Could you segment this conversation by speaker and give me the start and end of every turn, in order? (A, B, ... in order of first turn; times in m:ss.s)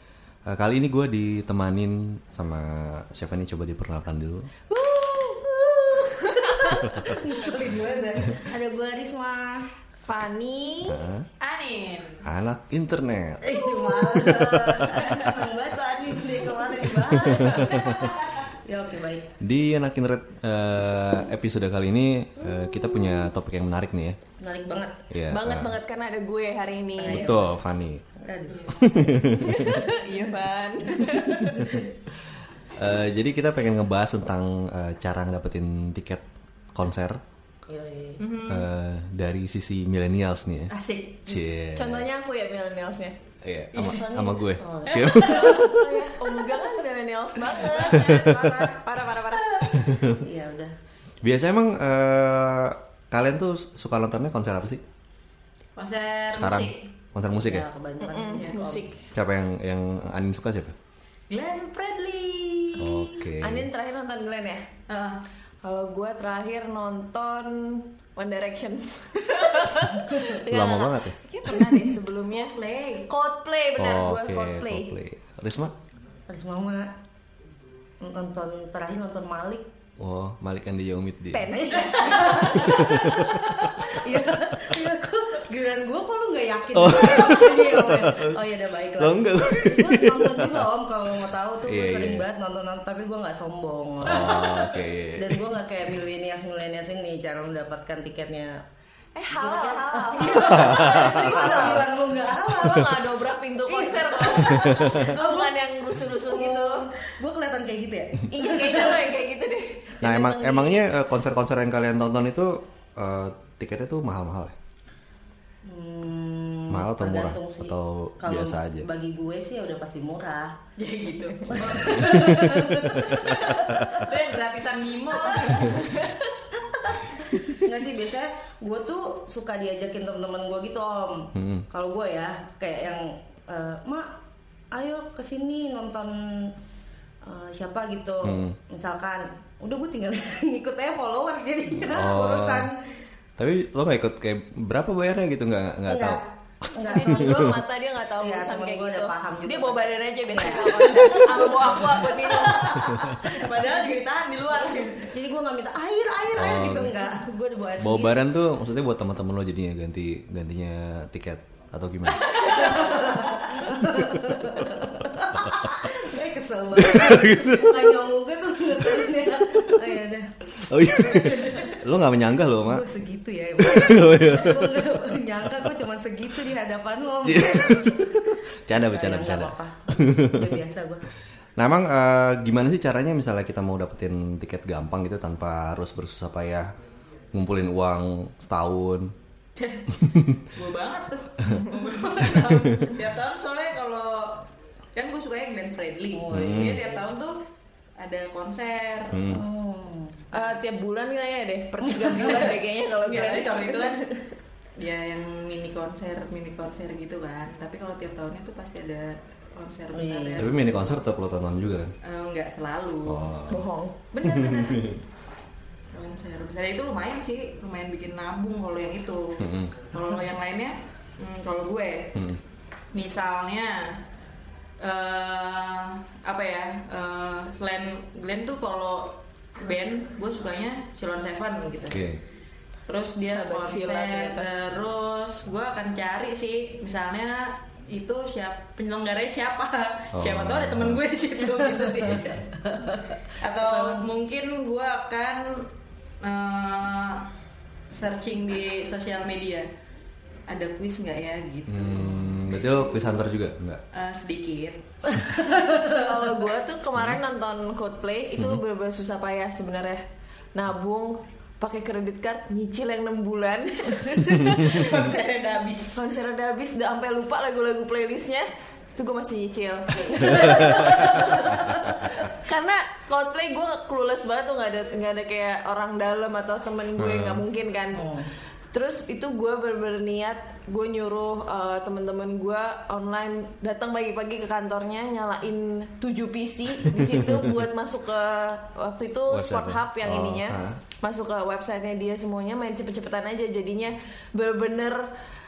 0:00.5-0:04.5 A
0:04.7-0:05.8 B
0:05.3-0:09.7 C
0:06.4-0:07.0 B
0:06.8-0:07.2 A
0:10.1-0:11.0 B
0:10.9-0:11.3 A
0:11.4-0:12.2 D
0:12.2-0:15.2 A
0:13.4-0:19.3 C
0:15.0-0:15.3 D
0:17.0-0:18.1 A
0:19.4-0:24.2 A
0:24.4-0:25.0 C
0:25.1-0:25.7 A
0:25.3-0:27.4 B
0:27.0-0:27.6 C
0:27.0-0:28.0 A
0:28.2-0:30.3 C
0:28.5-0:28.9 D
0:28.7-0:29.8 A
0:29.4-0:31.8 B
0:30.9-0:31.9 C
0:32.7-0:37.2 A
0:37.7-0:38.2 C
0:38.2-0:38.7 D
0:38.5-0:40.7 A
0:40.7-0:41.4 D
0:41.3-0:42.0 A
0:41.7-0:43.1 B
0:43.4-0:46.1 A
0:43.7-0:45.7 C
0:45.2-0:48.2 B
0:47.4-0:49.7 D
0:47.9-0:48.7 A
0:48.8-0:49.5 B
0:49.7-0:50.2 A
0:50.0-0:50.8 C
0:51.2-0:54.8 A
0:55.8-0:56.9 D
0:56.3-0:57.6 A
0:57.3-0:58.9 C
0:58.0-0:59.0 B
0:59.1-1:00.7 A
1:01.3-1:03.1 D
1:02.8-1:03.7 A
1:03.4-1:04.7 B
1:04.9-1:05.2 D
1:05.6-1:12.6 B
1:10.4-1:11.2 A
1:12.5-1:13.1 D
1:13.1-1:15.0 B
1:13.8-1:15.7 A
1:16.3-1:16.9 C
1:18.0-1:19.7 C
1:20.0-1:21.6 A
1:21.3-1:22.6 B
1:21.5-1:38.6 C
1:22.1-1:22.7 D
1:22.6-1:23.9 A
1:26.7-1:28.4 A
1:29.0-1:30.7 A
1:31.6-1:32.3 A
1:34.0-1:35.5 A
1:39.2-1:41.8 B
1:39.3-1:49.1 C
1:40.3-1:41.9 A
1:42.4-1:46.9 B
1:48.3-1:50.9 B
1:50.0-1:54.6 A
1:55.6-2:00.6 C
1:56.7-1:58.9 A
2:00.8-2:06.1 D
2:01.4-2:04.0 C
2:01.7-2:04.1 A
2:05.2-2:14.1 C
2:11.3-2:11.7 A
2:14.7-2:16.5 C
2:17.2-2:22.8 C
2:18.2-2:18.5 A
2:21.8-2:22.7 A
2:23.4-2:27.5 A
2:25.9-2:27.6 C
2:26.8-2:32.8 B
2:28.2-2:34.0 C
2:32.3-2:35.1 D
2:34.6-2:38.2 C
2:36.3-2:37.0 A
2:37.8-2:42.9 A
2:42.3-2:42.7 D
2:42.3-2:51.8 C
2:43.9-2:44.8 A
2:46.8-2:48.0 A
2:49.0-2:49.8 A
2:50.6-2:52.8 A
2:52.6-3:01.1 C
2:53.6-2:54.9 A
2:57.2-3:00.6 A
3:01.6-3:06.7 A
3:07.3-3:09.1 A
3:09.6-3:09.9 D
3:10.0-3:10.3 A
3:10.4-3:14.4 D
3:12.5-3:12.8 A
3:14.9-3:17.4 D
3:16.1-3:16.8 C
3:16.3-3:16.8 A
3:18.0-3:19.2 D
3:19.1-3:19.4 A
3:19.3-3:20.2 C
3:20.3-3:24.2 B
3:22.0-3:22.5 C
3:22.2-3:22.5 D
3:23.0-3:24.2 D
3:24.8-3:31.0 D
3:29.9-3:30.5 C
3:30.4-3:31.9 A
3:32.0-3:33.2 D
3:33.0-3:33.7 A
3:33.5-3:34.0 B
3:34.1-3:35.0 D
3:34.2-3:35.0 A
3:35.9-3:42.1 D
3:39.4-3:39.7 A
3:42.1-3:42.4 A
3:42.9-3:44.0 D
3:44.8-3:52.0 D
3:51.9-3:52.2 A
3:52.9-4:02.4 D
3:53.2-3:54.5 B
4:00.1-4:01.0 A
4:01.5-4:04.1 C
4:03.4-4:05.7 D
4:06.2-4:07.2 D
4:07.9-4:09.7 D
4:10.5-4:12.3 D
4:11.7-4:13.8 A
4:13.9-4:14.8 D
4:15.5-4:16.0 C
4:15.8-4:20.0 B
4:20.6-4:25.0 B
4:24.1-4:26.0 D
4:25.9-4:38.1 B
4:30.4-4:30.7 A
4:37.0-4:37.4 A
4:38.0-4:38.3 C
4:38.7-4:55.1 B
4:46.9-4:47.5 A
4:49.3-4:50.8 A